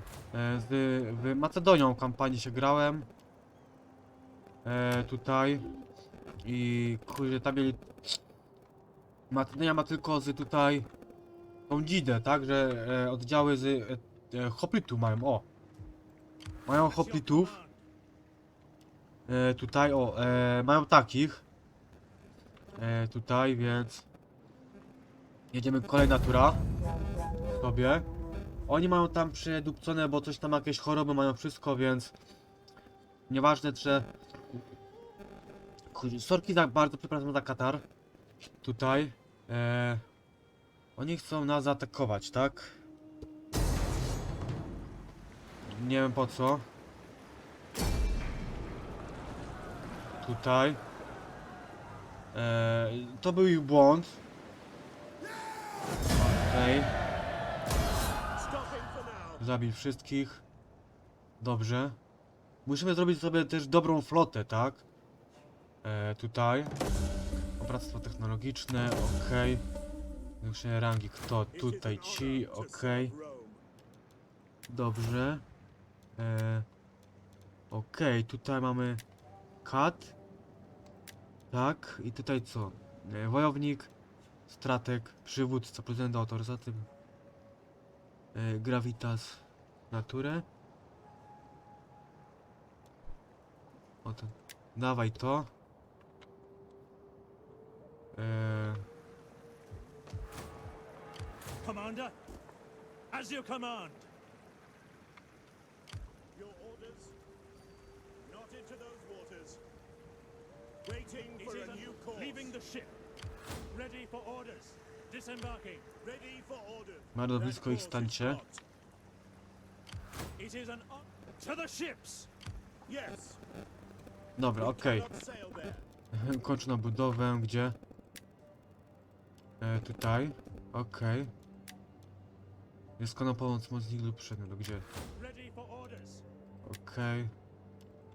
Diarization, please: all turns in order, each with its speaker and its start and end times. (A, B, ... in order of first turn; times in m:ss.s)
0:00.3-0:03.1 A
0:04.6-0:05.7 A
0:06.4-0:08.2 A
0:09.3-0:10.9 A
0:11.7-0:15.5 A
0:16.7-0:17.6 A
0:16.7-0:17.8 B
0:19.3-0:21.4 A
0:22.8-0:24.1 A
0:25.5-0:26.6 A
0:27.5-0:28.1 A
0:28.7-0:32.1 A
0:33.3-0:34.1 A
0:35.9-0:37.8 A
0:38.6-0:40.0 A
0:41.0-0:42.8 A
0:45.7-0:46.7 A
0:50.2-0:50.8 A
0:52.3-0:54.2 A
0:56.1-0:57.0 A
0:58.4-0:59.4 C
0:59.4-1:00.4 A
1:01.4-1:02.0 A
1:02.7-1:04.8 A
1:05.8-1:06.8 A
1:07.6-1:09.6 A
1:10.4-1:13.2 A
1:11.5-1:13.6 C
1:14.7-1:15.4 A
1:16.2-1:16.7 A
1:17.7-1:19.0 A
1:19.6-1:20.2 A
1:21.5-1:23.9 A
1:24.5-1:26.9 A
1:28.3-1:30.5 A
1:34.0-1:35.5 A
1:38.1-1:38.9 A
1:41.6-1:42.1 B
1:43.1-1:44.1 B
1:46.3-1:47.2 C
1:48.2-1:49.6 C
1:50.8-1:52.5 C
1:51.4-1:53.0 B
1:53.7-1:55.9 B
1:56.0-1:58.6 C
1:57.2-1:58.4 A
2:00.4-2:02.3 B
2:02.9-2:03.4 C
2:04.4-2:05.1 A
2:04.6-2:05.9 C
2:06.1-2:07.8 A
2:09.6-2:11.3 A
2:13.0-2:14.9 A
2:15.2-2:16.2 B
2:16.6-2:17.3 A